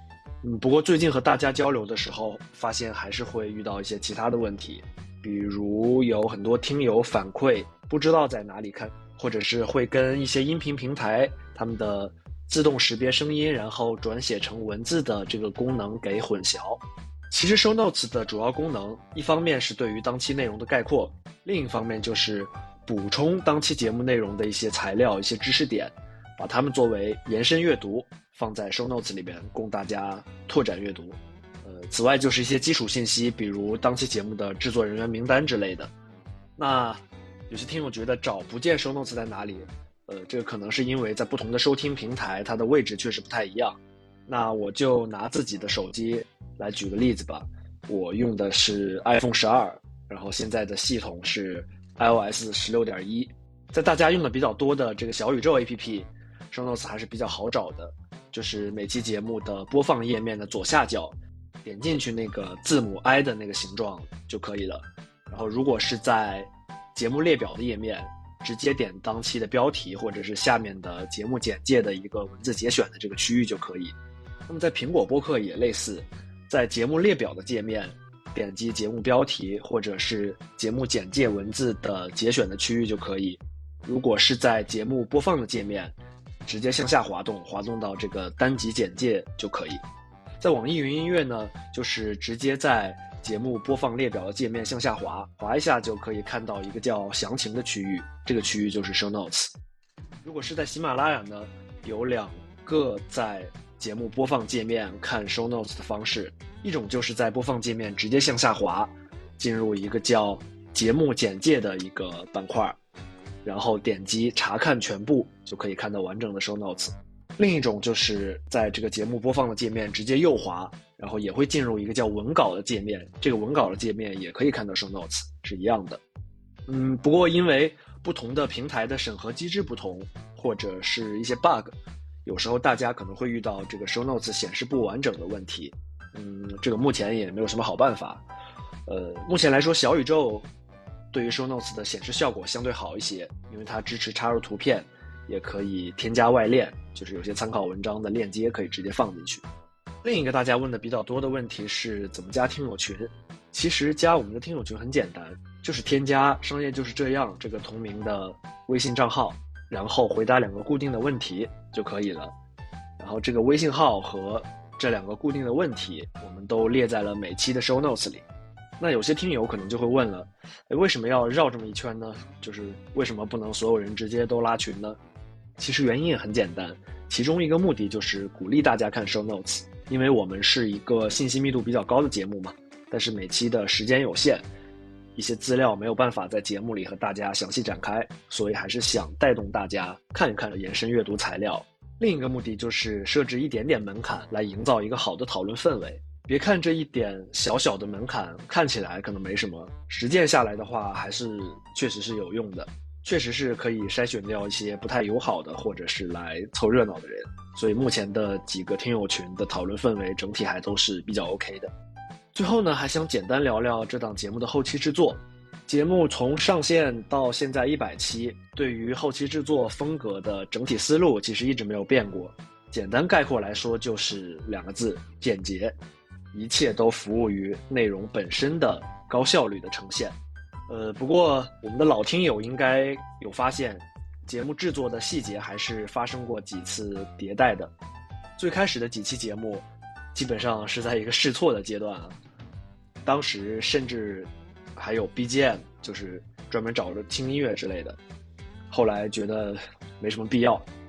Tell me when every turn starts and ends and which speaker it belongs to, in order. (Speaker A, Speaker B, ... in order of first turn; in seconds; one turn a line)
Speaker A: 0.4-35.9
Speaker A: 36.6-73.9
Speaker A: 74.5-89.8
Speaker A: 90.4-99.5
Speaker A: 100.2-112.8
Speaker A: 113.4-126.0
Speaker A: 126.7-138.2
Speaker A: 138.9-140.5
Speaker A: 141.1-149.4
Speaker A: 150.0-162.3
Speaker A: 163.0-168.2
Speaker A: 168.8-175.0
Speaker A: 175.6-184.5
Speaker A: 185.2-211.7
Speaker A: 212.3-225.8
Speaker A: 226.3-230.2
Speaker A: 230.7-237.7
Speaker A: 238.4-242.2
Speaker A: 243.0-248.0
Speaker A: 248.7-250.7